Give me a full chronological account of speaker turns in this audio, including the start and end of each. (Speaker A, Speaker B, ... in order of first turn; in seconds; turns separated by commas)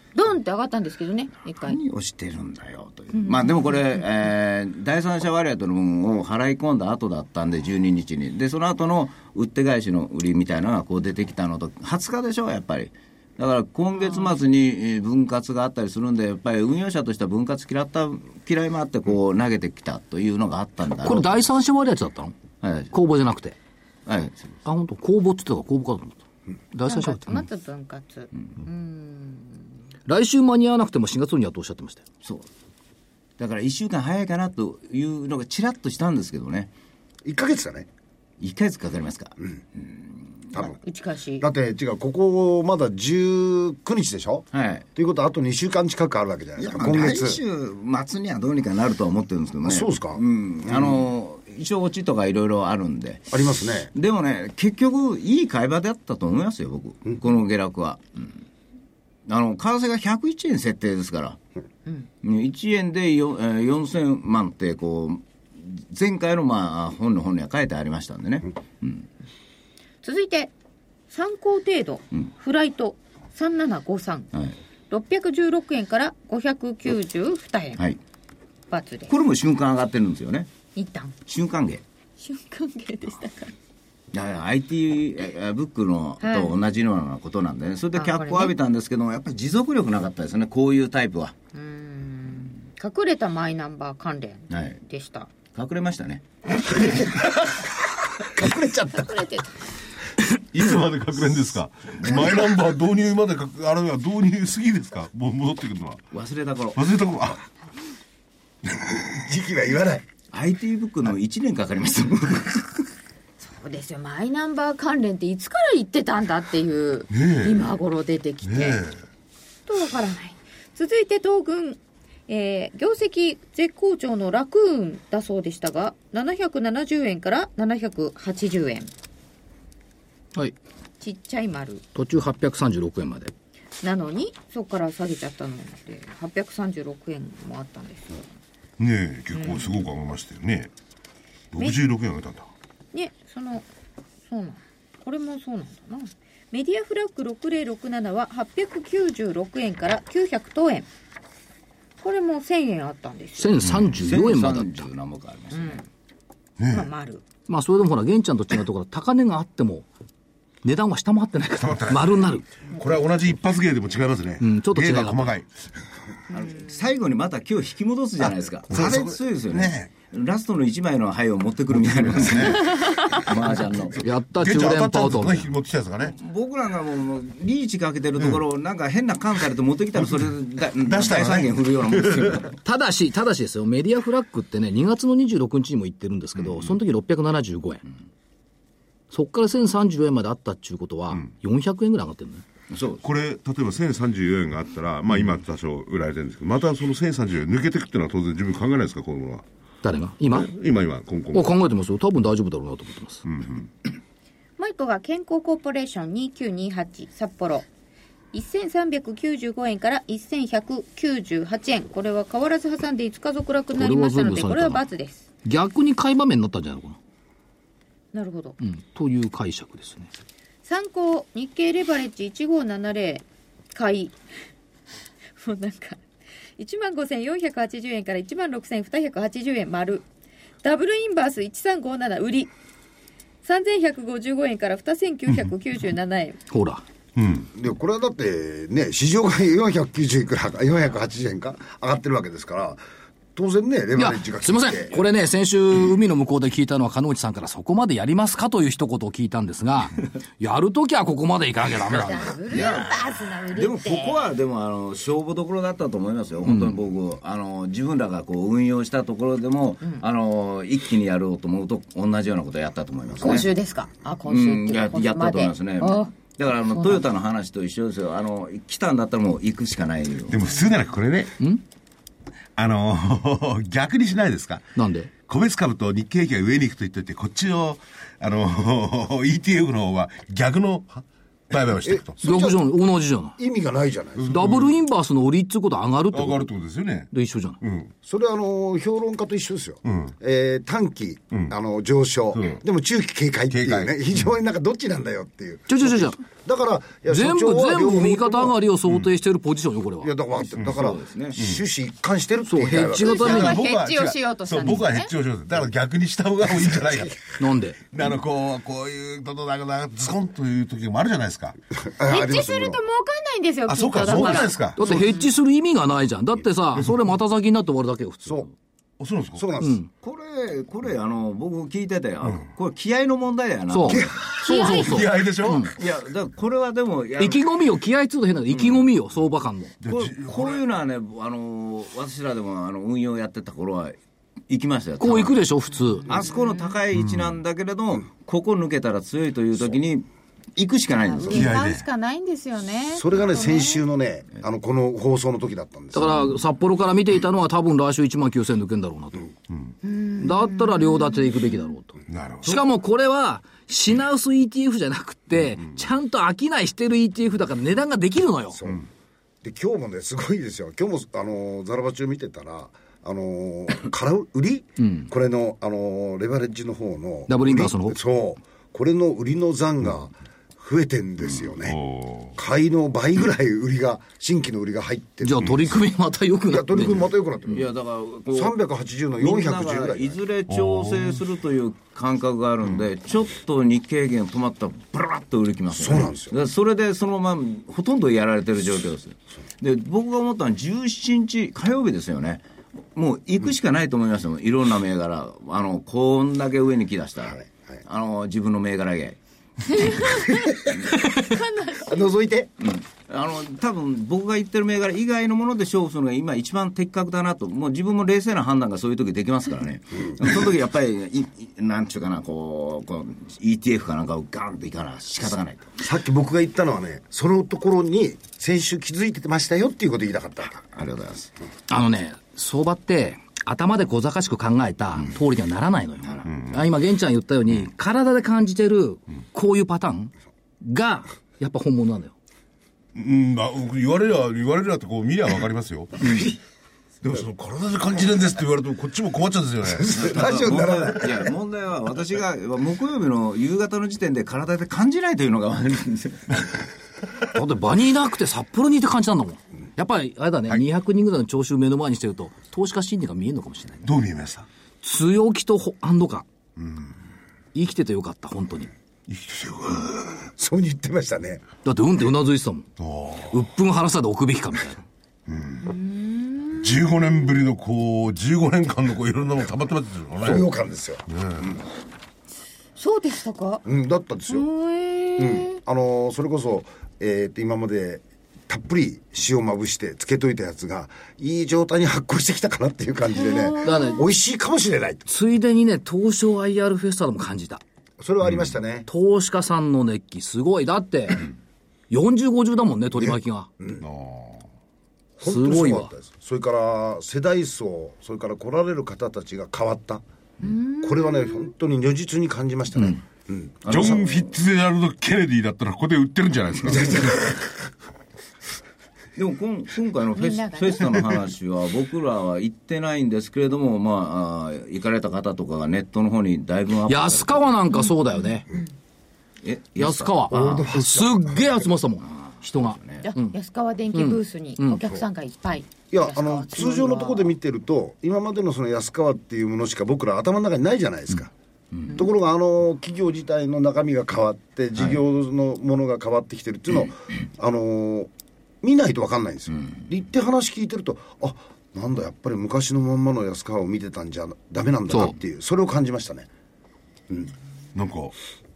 Speaker A: 0.1-1.8, Speaker B: 1.6-21.4, Speaker A: 3.1-4.0, Speaker A: 14.0-14.3, Speaker C: 21.0-22.4, Speaker B: 22.6-22.9, Speaker C: 22.9-23.6, Speaker B: 24.1-24.6, Speaker C: 24.6-26.2, Speaker C: 26.7-27.4, Speaker A: 26.9-29.6, Speaker C: 30.1-32.0, Speaker B: 33.4-36.7, Speaker D: 37.2-37.9, Speaker B: 38.4-40.3, Speaker A: 40.8-41.5, Speaker D: 41.4-47.4, Speaker B: 44.5-44.9, Speaker B: 46.6-53.4, Speaker D: 49.6-51.0, Speaker D: 53.3-53.9, Speaker B: 53.9-58.4, Speaker B: 59.3-61.4, Speaker B: 62.2-69.1, Speaker A: 70.0-70.5, Speaker A: 71.1-74.3, Speaker A: 74.9-77.8, Speaker A: 78.7-79.1, Speaker B: 79.1-80.5, Speaker A: 80.7-81.1, Speaker B: 81.3-81.8, Speaker A: 82.2-83.5, Speaker B: 84.1-91.4, Speaker A: 86.2-86.5, Speaker A: 87.9-88.6, Speaker A: 91.5-95.3, Speaker B: 94.5-94.8, Speaker B: 95.5-96.2, Speaker D: 98.3-99.2, Speaker A: 98.9-99.5, Speaker E: 100.3-106.0, Speaker B: 106.1-106.8, Speaker E: 106.7-107.4, Speaker D: 109.1-110.0, Speaker B: 110.3-112.9, Speaker A: 113.4-118.8, Speaker E: 117.1-117.7, Speaker E: 118.4-118.9, Speaker A: 119.7-128.9, Speaker A: 131.0-131.8, Speaker C: 131.9-133.3, Speaker A: 133.8-138.2, Speaker E: 138.8-140.7, Speaker A: 139.3-139.7, Speaker E: 141.5-142.5, Speaker A: 142.9-143.7, Speaker A: 144.2-150.9, Speaker A: 152.0-153.6, Speaker C: 153.4-154.9, Speaker B: 153.9-155.8, Speaker A: 155.5-155.8, Speaker E: 156.6-156.9, Speaker A: 156.7-157.2, Speaker C: 157.5-159.8, Speaker C: 160.6-162.4, Speaker E: 161.6-165.5, Speaker C: 164.4-165.3, Speaker B: 166.3-174.0, Speaker A: 166.3-166.7, Speaker E: 168.2-169.9, Speaker E: 171.8-176.2, Speaker A: 172.6-173.2, Speaker C: 174.0-175.5, Speaker B: 176.0-182.6, Speaker E: 180.8-182.4, Speaker C: 182.6-187.8, Speaker C: 189.1-192.4, Speaker B: 192.7-193.0, Speaker E: 193.0-199.4, Speaker C: 199.8-200.5, Speaker E: 200.3-201.5, Speaker C: 201.3-203.2, Speaker E: 203.2-203.7, Speaker A: 204.6-207.7, Speaker A: 208.3-215.2, Speaker C: 213.8-214.8, Speaker C: 215.4-217.0, Speaker A: 218.1-218.6, Speaker C: 218.6-220.1, Speaker A: 220.6-224.2, Speaker A: 225.4-226.0, Speaker A: 226.6-230.0, Speaker A: 230.6-232.5, Speaker A: 233.4-236.4, Speaker C: 236.5-236.8, Speaker E: 237.2-237.5, Speaker D: 237.5-242.8, Speaker D: 243.3-245.0, Speaker C: 243.9-252.4, Speaker A: 251.9-254.3, Speaker B: 252.5-263.5, Speaker C: 256.5-256.8, Speaker A: 263.2-267.0, Speaker B: 264.3-270.5, Speaker E: 270.3-271.4, Speaker E: 272.6-274.7, Speaker C: 274.8-275.1, Speaker E: 275.2-282.1, Speaker D: 281.8-282.7, Speaker C: 282.2-283.4, Speaker D: 283.4-284.4, Speaker E: 284.2-284.7, Speaker C: 284.3-286.5, Speaker E: 286.1-287.1, Speaker C: 287.1-287.6, Speaker E: 287.6-287.9, Speaker D: 288.0-298.6, Speaker E: 289.9-290.1, Speaker E: 292.3-292.6, Speaker E: 293.5-294.0, Speaker C: 295.7-296.2, Speaker C: 297.1-300.1, Speaker D: 300.0-303.4, Speaker B: 300.4-301.4, Speaker E: 301.4-301.6, Speaker C: 302.4-303.6, Speaker A: 302.9-305.1, Speaker E: 303.2-307.3, Speaker C: 307.4-307.8, Speaker E: 307.9-311.6, Speaker D: 311.8-312.8, Speaker A: 312.1-315.3, Speaker E: 313.7-314.8, Speaker C: 314.8-318.5, Speaker E: 319.0-319.4, Speaker D: 319.4-319.8, Speaker C: 319.6-319.9, Speaker B: 320.0-324.2, Speaker C: 323.7-325.7, Speaker D: 323.9-324.3, Speaker E: 324.4-325.7, Speaker A: 324.4-325.0, Speaker B: 325.8-327.4, Speaker C: 327.2-329.7, Speaker B: 328.5-328.8, Speaker E: 329.8-330.6, Speaker B: 329.9-333.9, Speaker B: 334.5-335.4, Speaker C: 335.0-336.1, Speaker A: 336.0-336.8, Speaker B: 336.1-341.5, Speaker E: 336.9-337.3, Speaker A: 341.1-343.8, Speaker E: 341.4-341.9, Speaker D: 342.9-346.3, Speaker C: 345.9-349.3, Speaker A: 349.8-351.7, Speaker C: 350.2-358.6, Speaker E: 352.1-352.6, Speaker D: 358.5-358.9, Speaker D: 359.4-371.8, Speaker C: 364.8-365.1, Speaker C: 367.3-368.0, Speaker E: 371.2-372.4, Speaker D: 372.3-375.5, Speaker C: 375.2-377.1, Speaker D: 376.5-377.7, Speaker B: 377.5-378.6, Speaker D: 378.3-380.2, Speaker B: 379.2-392.4, Speaker E: 380.5-381.2, Speaker D: 385.7-386.4, Speaker B: 392.9-399.2, Speaker A: 399.7-402.1, Speaker D: 401.8-402.5, Speaker B: 402.6-415.7, Speaker D: 415.8-420.7, Speaker B: 420.7-421.3, Speaker C: 421.7-432.1, Speaker E: 426.3-426.6, Speaker E: 432.9-436.3, Speaker E: 437.0-440.1, Speaker D: 439.6-441.3, Speaker B: 439.9-446.5, Speaker C: 447.3-453.9, Speaker E: 453.8-454.5, Speaker C: 454.8-456.2, Speaker E: 456.6-456.9, Speaker C: 457.5-458.7, Speaker E: 459.1-460.3, Speaker D: 460.4-461.4, Speaker C: 461.6-462.7, Speaker E: 462.8-463.4, Speaker C: 463.3-464.8, Speaker E: 465.3-465.7, Speaker A: 465.6-466.8, Speaker E: 466.6-470.5, Speaker D: 470.2-471.0, Speaker E: 471.1-471.5, Speaker A: 472.8-473.6, Speaker D: 473.6-474.5, Speaker A: 474.3-475.6, Speaker D: 475.2-485.1, Speaker A: 483.1-484.1, Speaker C: 483.6-484.1, Speaker C: 485.1-487.6, Speaker D: 488.0-488.9, Speaker E: 488.2-488.5, Speaker C: 488.9-491.3, Speaker C: 491.9-493.5, Speaker D: 492.9-493.8, Speaker E: 493.8-494.4, Speaker D: 495.2-500.0, Speaker C: 495.2-495.9, Speaker A: 500.4-501.5, Speaker D: 500.8-504.1, Speaker B: 503.6-504.3, Speaker E: 503.7-507.4, Speaker D: 506.6-507.2, Speaker B: 509.1-517.5, Speaker A: 510.1-511.0, Speaker C: 516.9-518.5, Speaker A: 517.7-518.7, Speaker B: 519.4-520.7, Speaker C: 519.8-523.4, Speaker D: 520.3-521.7, Speaker B: 522.3-523.1, Speaker A: 523.0-527.3, Speaker C: 523.9-524.8, Speaker D: 525.9-531.3, Speaker D: 531.9-538.1, Speaker D: 538.6-546.3, Speaker C: 544.9-545.1, Speaker E: 547.7-548.1